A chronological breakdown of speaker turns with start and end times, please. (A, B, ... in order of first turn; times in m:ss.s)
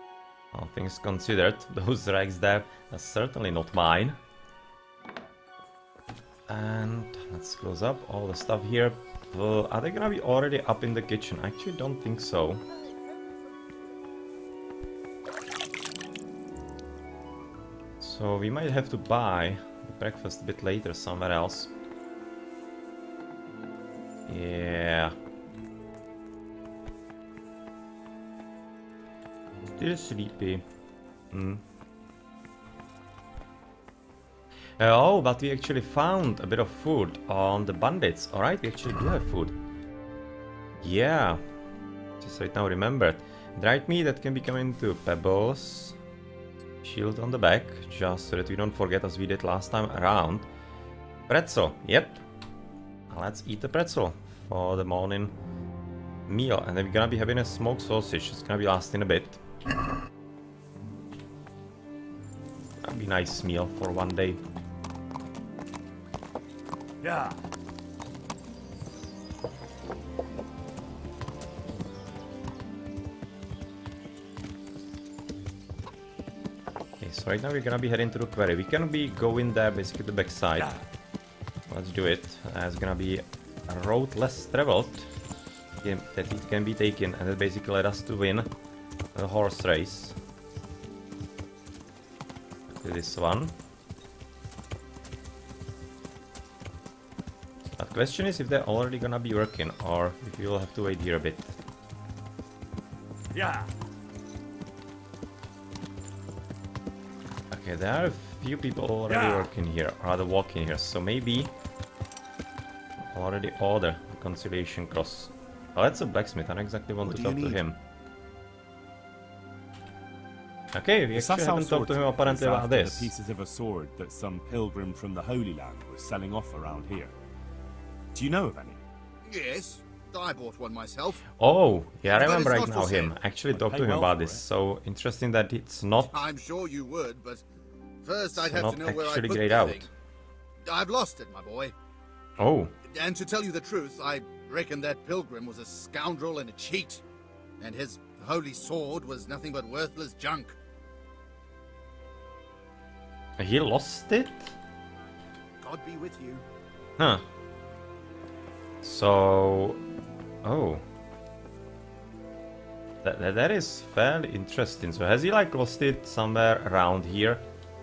0:00.5-0:04.2 A
0:06.5-0:12.6 A
0:18.0-0:21.7 A
0:24.3-0:25.1 A
0:29.8-0:30.6 A
0:31.3-0:31.6 A
0:34.8-0:39.6 A
0:40.8-0:41.4 A
0:42.2-0:46.0 A
0:46.8-0:50.5 A
0:51.3-0:52.2 A
0:53.1-0:55.3 A
0:56.3-0:59.4 A
1:02.8-1:04.4 A
1:17.0-1:20.8 A
1:21.7-1:25.1 A
1:25.8-1:28.5 A
1:29.1-1:30.2 A
1:32.7-1:33.5 A
1:37.8-1:41.5 A
1:47.5-1:51.5 A
1:53.1-1:57.8 A
1:57.0-1:57.6 B
2:00.7-2:03.1 A
2:01.1-2:07.1 B
2:08.1-2:08.8 B
2:09.2-2:11.3 C
2:11.4-2:16.1 A
2:12.1-2:13.2 C
2:13.5-2:14.4 B
2:16.1-2:17.4 C
2:18.0-2:19.9 C
2:18.4-2:19.9 A
2:20.6-2:21.7 C
2:22.4-2:22.7 A
2:22.9-2:27.0 C
2:27.6-2:30.6 C
2:33.4-2:34.6 A
2:35.6-2:36.4 C
2:37.0-2:37.2 A
2:38.8-2:39.8 A
2:40.4-2:40.8 A
2:43.0-2:47.4 A